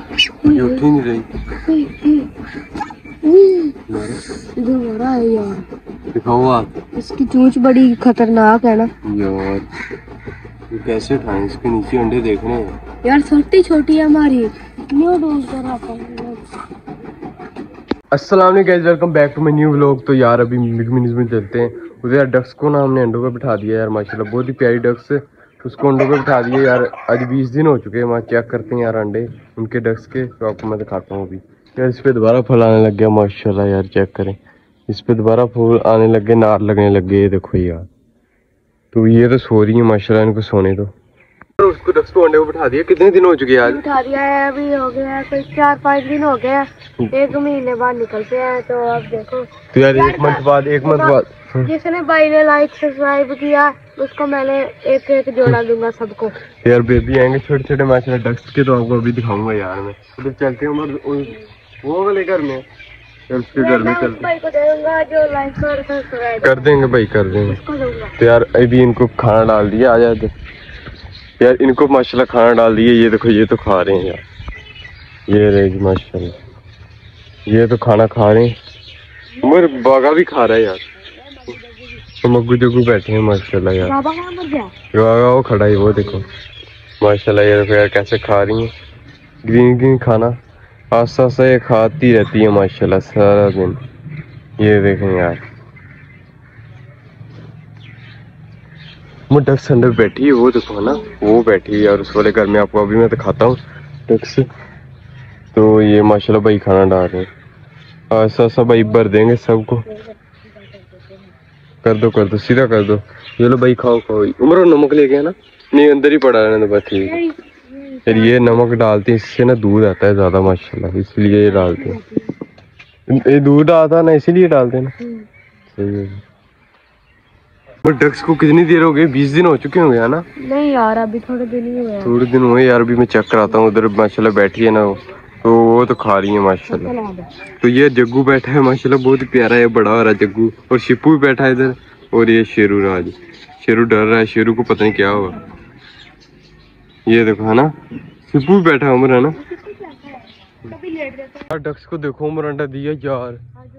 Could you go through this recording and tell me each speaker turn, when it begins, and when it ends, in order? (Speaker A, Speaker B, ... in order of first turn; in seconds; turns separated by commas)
Speaker A: 0.4-0.8, Speaker B: 0.5-1.3, Speaker A: 1.6-2.3, Speaker A: 3.2-3.7, Speaker B: 3.9-4.2, Speaker A: 4.6-5.6, Speaker B: 6.1-6.8, Speaker A: 6.9-8.9, Speaker B: 9.0-9.7, Speaker B: 10.7-12.8, Speaker A: 13.0-16.4, Speaker B: 18.1-34.4, Speaker B: 34.9-37.9, Speaker B: 38.9-40.9, Speaker B: 41.6-43.8, Speaker A: 43.6-51.1, Speaker B: 49.7-51.7, Speaker A: 51.7-56.3, Speaker B: 56.5-62.6, Speaker B: 63.3-64.3, Speaker A: 63.5-66.7, Speaker B: 66.4-67.6, Speaker A: 67.5-68.1, Speaker B: 68.2-70.3, Speaker B: 71.4-74.2, Speaker B: 75.3-76.3, Speaker B: 77.5-78.5, Speaker B: 79.4-80.8, Speaker B: 82.2-84.0, Speaker A: 83.9-84.7, Speaker B: 84.9-86.3, Speaker B: 87.0-88.7, Speaker B: 89.4-90.3, Speaker B: 90.9-93.8, Speaker B: 94.6-95.4, Speaker B: 99.3-104.5, Speaker B: 105.5-107.3, Speaker B: 108.1-109.9, Speaker B: 111.8-117.2, Speaker B: 118.0-122.0, Speaker A: 118.1-118.4, Speaker A: 121.5-122.2, Speaker B: 123.1-124.9, Speaker B: 125.7-126.2, Speaker B: 127.8-130.2, Speaker A: 130.4-132.1, Speaker B: 132.0-136.9, Speaker A: 136.7-137.2, Speaker B: 137.6-145.4, Speaker B: 147.1-147.7, Speaker B: 148.2-149.4, Speaker A: 149.6-150.0, Speaker A: 150.8-151.2, Speaker B: 151.4-153.4